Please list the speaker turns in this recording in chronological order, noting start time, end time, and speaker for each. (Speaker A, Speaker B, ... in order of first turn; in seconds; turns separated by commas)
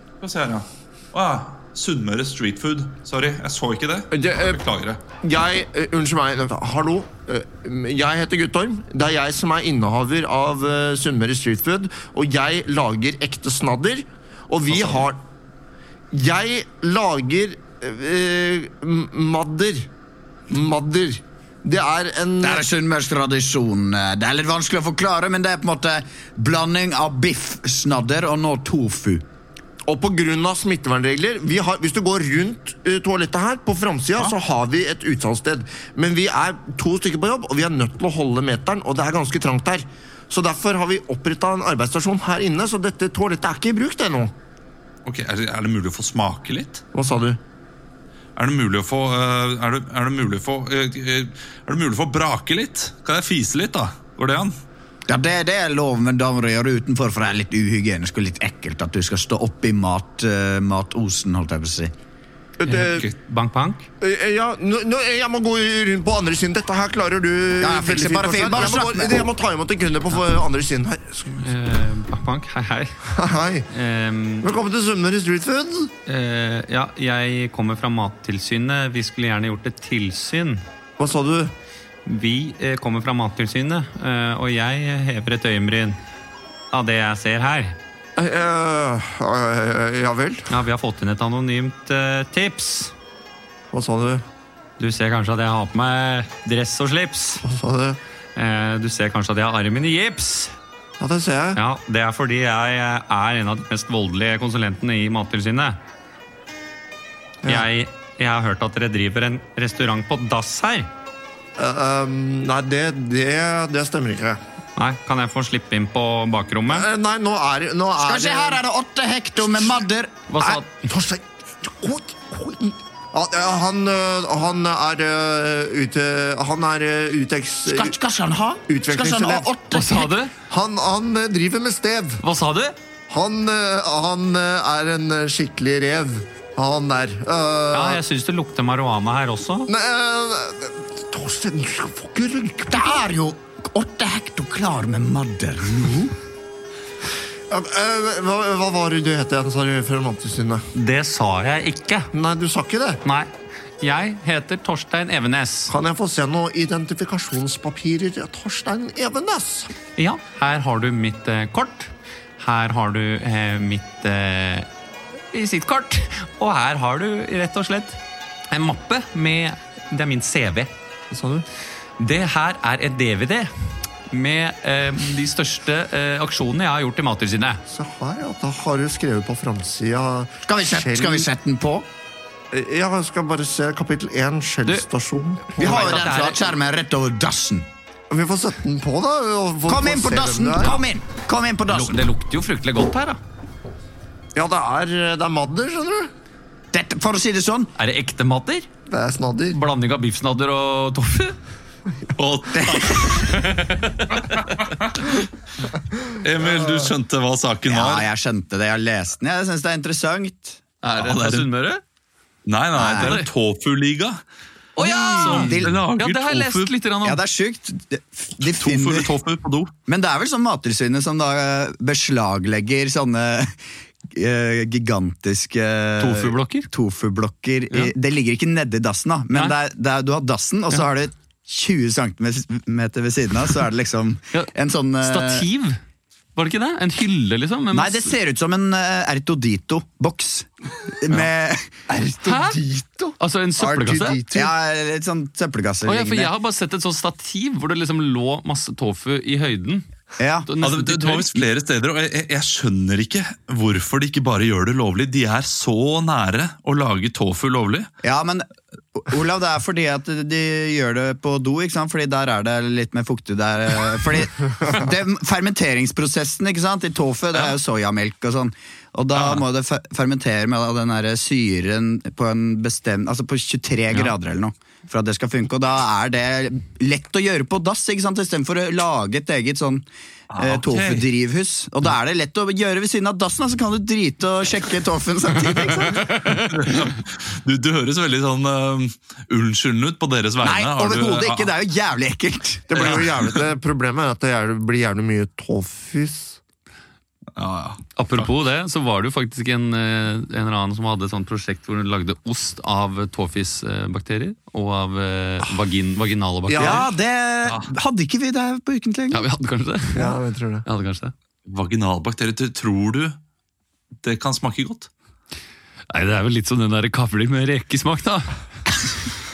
Speaker A: 0.2-5.0, Speaker B: 4.1-4.6, Speaker B: 5.2-15.2, Speaker A: 14.7-15.0, Speaker B: 16.1-19.9, Speaker B: 20.5-22.6, Speaker C: 22.4-29.2, Speaker B: 29.9-44.3, Speaker A: 45.0-46.8, Speaker B: 46.9-47.4, Speaker A: 48.4-54.5, Speaker C: 55.1-61.9, Speaker B: 62.6-63.1, Speaker D: 62.7-63.9, Speaker B: 64.0-71.5, Speaker C: 67.6-69.3, Speaker D: 71.3-73.0, Speaker B: 73.1-73.7, Speaker D: 73.7-74.5, Speaker B: 74.4-75.9, Speaker D: 76.0-80.6, Speaker B: 81.0-81.5, Speaker D: 82.0-86.0, Speaker D: 86.7-87.8, Speaker B: 88.2-90.5, Speaker D: 90.5-92.9, Speaker B: 93.7-94.2, Speaker D: 94.8-97.4, Speaker B: 97.4-98.0, Speaker D: 98.3-100.5, Speaker B: 101.0-101.6, Speaker D: 101.5-105.8, Speaker D: 107.5-110.9, Speaker B: 111.6-114.4, Speaker D: 114.8-116.9, Speaker B: 116.7-118.6, Speaker C: 118.0-120.1, Speaker B: 119.4-119.8, Speaker D: 120.3-120.9, Speaker B: 120.4-128.0, Speaker C: 127.7-130.1, Speaker B: 128.7-129.5, Speaker D: 129.7-130.3, Speaker B: 130.5-132.2, Speaker D: 132.2-132.8, Speaker B: 133.1-138.0, Speaker D: 137.7-139.7, Speaker B: 139.7-143.0, Speaker C: 142.7-146.1, Speaker B: 147.5-150.6, Speaker D: 150.7-152.1, Speaker B: 152.1-153.0, Speaker D: 153.0-153.3, Speaker D: 153.8-155.7, Speaker B: 155.7-159.7, Speaker D: 159.9-164.7, Speaker D: 165.3-168.0, Speaker D: 168.5-170.7, Speaker B: 171.1-171.4, Speaker D: 172.0-173.5, Speaker D: 174.1-177.6, Speaker B: 177.7-181.3, Speaker C: 180.4-181.9, Speaker B: 182.5-186.0, Speaker D: 185.5-186.4, Speaker C: 185.6-187.7, Speaker B: 188.1-190.8, Speaker C: 189.7-192.0, Speaker D: 191.7-193.2, Speaker B: 194.3-196.1, Speaker C: 196.7-197.7, Speaker D: 197.8-198.7, Speaker B: 198.9-199.6, Speaker D: 199.5-201.3, Speaker A: 202.1-203.4, Speaker C: 202.6-203.3, Speaker D: 203.3-204.6, Speaker A: 204.6-205.2, Speaker A: 206.2-208.1, Speaker C: 207.7-210.6, Speaker D: 210.8-211.8, Speaker A: 211.0-211.5, Speaker A: 212.4-214.2, Speaker C: 212.8-213.2, Speaker D: 213.0-213.3, Speaker D: 214.8-217.2, Speaker A: 214.8-216.7, Speaker C: 215.2-215.8, Speaker C: 217.0-219.1, Speaker A: 218.4-219.7, Speaker C: 219.9-223.6, Speaker C: 224.1-235.4, Speaker D: 226.0-226.7, Speaker D: 235.0-235.8, Speaker D: 236.3-238.1, Speaker C: 237.7-246.3, Speaker D: 242.2-242.6, Speaker D: 243.2-244.5, Speaker D: 245.8-249.8, Speaker C: 250.2-250.5, Speaker D: 250.4-251.4, Speaker A: 250.6-257.9, Speaker C: 258.0-279.9, Speaker A: 269.1-269.4, Speaker A: 280.3-281.1, Speaker C: 280.4-286.2, Speaker D: 286.2-286.5, Speaker A: 286.3-291.5, Speaker C: 290.4-293.0, Speaker B: 292.7-296.4, Speaker A: 292.8-293.2, Speaker A: 297.4-298.3, Speaker D: 297.9-306.9, Speaker B: 306.5-306.9, Speaker C: 306.6-309.2, Speaker A: 307.4-307.7, Speaker D: 309.1-311.1, Speaker B: 309.9-310.6, Speaker A: 311.4-313.2, Speaker A: 314.0-314.9, Speaker D: 315.9-318.3